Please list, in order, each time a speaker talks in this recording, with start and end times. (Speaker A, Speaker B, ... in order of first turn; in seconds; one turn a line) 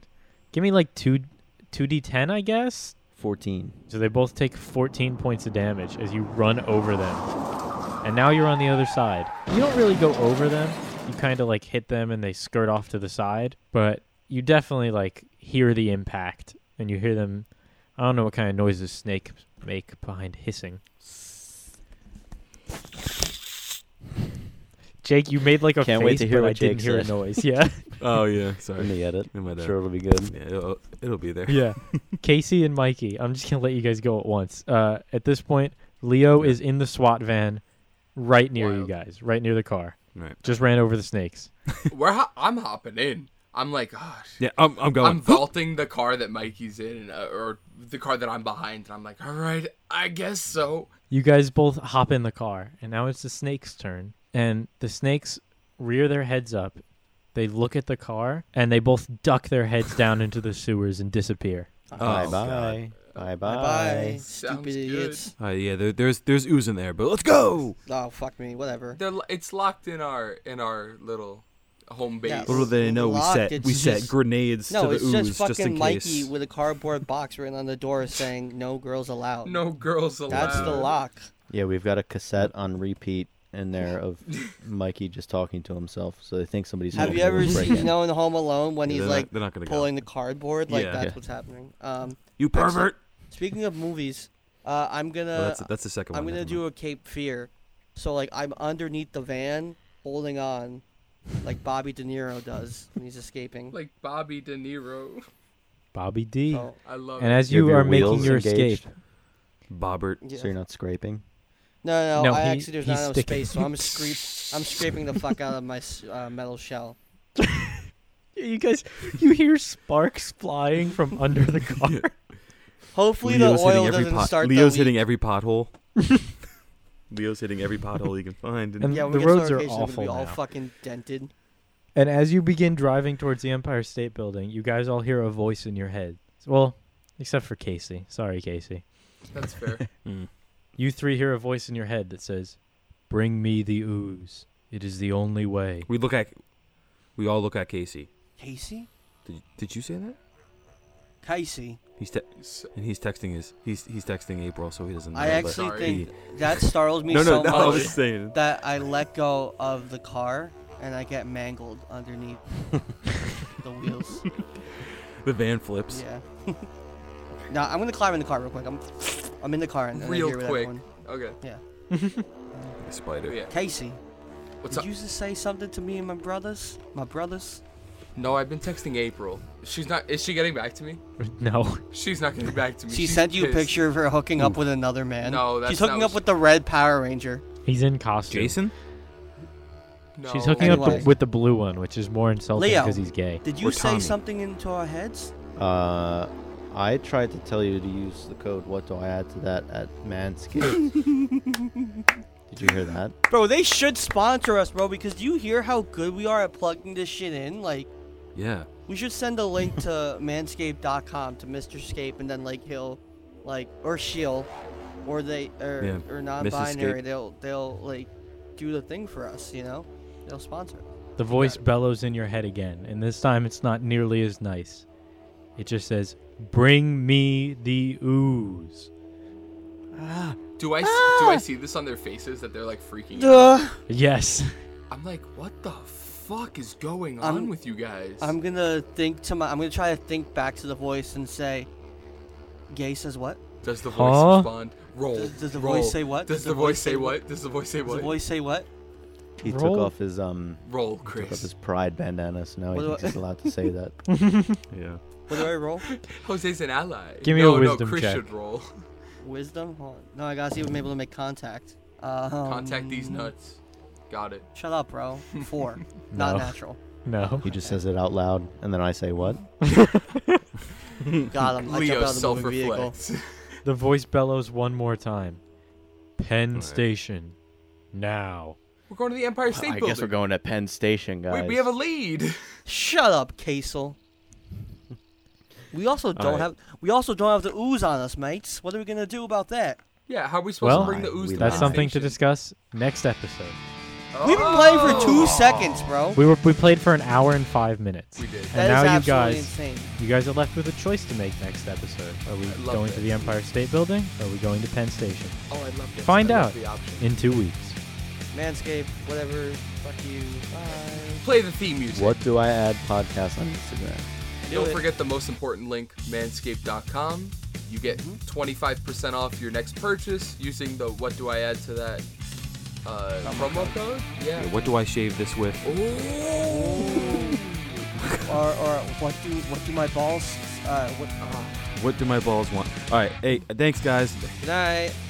Speaker A: 0.5-3.0
Speaker B: 3.2-3.8
Speaker A: 3.9-7.3
Speaker A: 8.0-20.8
Speaker A: 25.0-27.9
Speaker B: 25.8-27.4
Speaker C: 28.0-32.1
Speaker B: 28.8-30.4
Speaker A: 31.5-41.5
Speaker D: 38.5-38.9
Speaker C: 40.1-40.5
Speaker D: 41.9-50.9
Speaker C: 44.4-45.5
Speaker A: 51.1-56.8
Speaker A: 57.3-61.7
Speaker E: 61.9-62.5
Speaker C: 62.0-62.8
Speaker B: 62.0-64.2
Speaker E: 63.4-65.3
Speaker D: 64.3-65.3
Speaker C: 65.4-67.8
Speaker E: 67.9-69.0
Speaker D: 68.9-72.7
Speaker E: 72.2-74.1
Speaker C: 72.5-76.3
Speaker E: 74.7-79.7
Speaker D: 79.4-80.9
Speaker E: 80.3-81.3
Speaker B: 80.3-80.9
Speaker B: 81.5-88.0
Speaker C: 86.9-87.6
Speaker E: 87.0-100.8
Speaker C: 88.8-90.0
Speaker C: 90.7-91.1
Speaker C: 92.4-93.0
Speaker C: 95.3-96.6
Speaker E: 101.4-103.8
Speaker D: 103.7-105.3
Speaker A: 105.9-108.9
Speaker E: 106.5-106.8
Speaker D: 106.8-107.5
Speaker B: 107.5-108.8
Speaker C: 109.7-110.2
Speaker E: 110.2-110.5
Speaker B: 110.3-111.2
Speaker E: 111.8-117.0
Speaker A: 112.2-114.8
Speaker A: 117.4-122.1
Speaker C: 121.8-122.3
Speaker E: 122.9-125.0
Speaker C: 123.2-125.8
Speaker C: 127.1-129.1
Speaker A: 128.8-130.4
Speaker E: 128.8-131.3
Speaker A: 132.0-138.8
Speaker D: 139.3-139.9
Speaker C: 140.0-140.3
Speaker A: 140.8-142.6
Speaker A: 143.1-145.9
Speaker C: 145.9-146.4
Speaker C: 147.2-148.1
Speaker E: 148.4-148.9
Speaker C: 149.2-150.2
Speaker E: 151.2-151.8
Speaker C: 152.0-158.4
Speaker D: 152.4-152.7
Speaker E: 155.1-164.2
Speaker D: 155.4-156.1
Speaker D: 157.2-158.0
Speaker C: 165.2-166.0
Speaker E: 165.9-166.7
Speaker E: 167.5-170.8
Speaker D: 169.9-171.4
Speaker A: 171.9-172.3
Speaker C: 172.8-173.4
Speaker D: 173.2-173.6
Speaker E: 173.5-174.0
Speaker E: 174.7-177.6
Speaker D: 178.2-181.0
Speaker A: 181.2-181.8
Speaker D: 181.9-183.8
Speaker E: 182.9-187.4
Speaker D: 185.2-186.2
Speaker A: 187.7-188.6
Speaker C: 188.3-188.7
Speaker D: 190.2-191.1
Speaker A: 190.2-193.4
Speaker E: 190.6-191.1
Speaker E: 192.6-195.3
Speaker C: 193.6-194.2
Speaker B: 195.6-201.0
Speaker E: 200.9-202.0
Speaker B: 202.5-203.2
Speaker E: 203.3-207.9
Speaker C: 208.3-208.7
Speaker E: 208.9-214.5
Speaker E: 215.1-220.9
Speaker C: 215.8-217.0
Speaker A: 221.2-224.8
Speaker A: 225.6-228.9
Speaker B: 230.0-230.4
Speaker D: 230.6-233.6
Speaker E: 230.8-231.4
Speaker E: 233.2-233.8
Speaker A: 233.9-234.5
Speaker D: 234.9-238.4
Speaker E: 237.2-237.5
Speaker E: 238.2-241.7
Speaker E: 242.7-243.4
Speaker D: 243.6-248.2
Speaker A: 243.9-244.5
Speaker E: 245.1-247.2
Speaker E: 247.8-248.7
Speaker B: 249.4-254.0
Speaker A: 249.4-249.9
Speaker D: 250.7-251.5
Speaker E: 252.7-253.3
Speaker A: 254.1-254.6
Speaker C: 254.7-255.0
Speaker E: 255.3-255.9
Speaker D: 255.3-258.8
Speaker A: 257.2-258.3
Speaker E: 259.2-263.3
Speaker D: 262.4-263.6
Speaker D: 264.1-264.5
Speaker E: 264.5-266.8
Speaker A: 266.1-267.5
Speaker B: 267.4-269.4
Speaker E: 267.5-267.8
Speaker A: 269.6-270.4
Speaker C: 271.1-271.3
Speaker E: 271.3-272.9
Speaker D: 271.6-273.5
Speaker A: 273.6-275.4
Speaker A: 276.2-277.4
Speaker C: 276.5-276.8
Speaker A: 277.9-278.6
Speaker D: 278.9-280.2
Speaker B: 279.5-281.7
Speaker D: 281.3-282.4
Speaker E: 282.7-284.0
Speaker E: 285.7-289.8
Speaker C: 286.1-286.5
Speaker D: 290.1-292.2
Speaker A: 290.6-293.6
Speaker B: 290.6-291.8
Speaker D: 294.1-295.8
Speaker E: 294.2-296.2
Speaker A: 296.1-305.4
Speaker D: 298.2-298.6
Speaker E: 298.5-299.9
Speaker D: 302.5-303.4
Speaker D: 305.5-307.1
Speaker A: 306.0-307.8
Speaker E: 308.3-311.2
Speaker D: 311.2-312.2
Speaker B: 311.9-314.1
Speaker E: 314.5-314.8
Speaker D: 314.5-322.1
Speaker E: 317.9-318.2
Speaker D: 322.8-324.6
Speaker E: 323.2-323.8
Speaker C: 324.3-325.7
Speaker D: 325.6-327.5
Speaker E: 326.4-327.4
Speaker C: 328.0-328.3
Speaker E: 328.2-331.5
Speaker C: 331.7-334.4
Speaker E: 334.4-335.0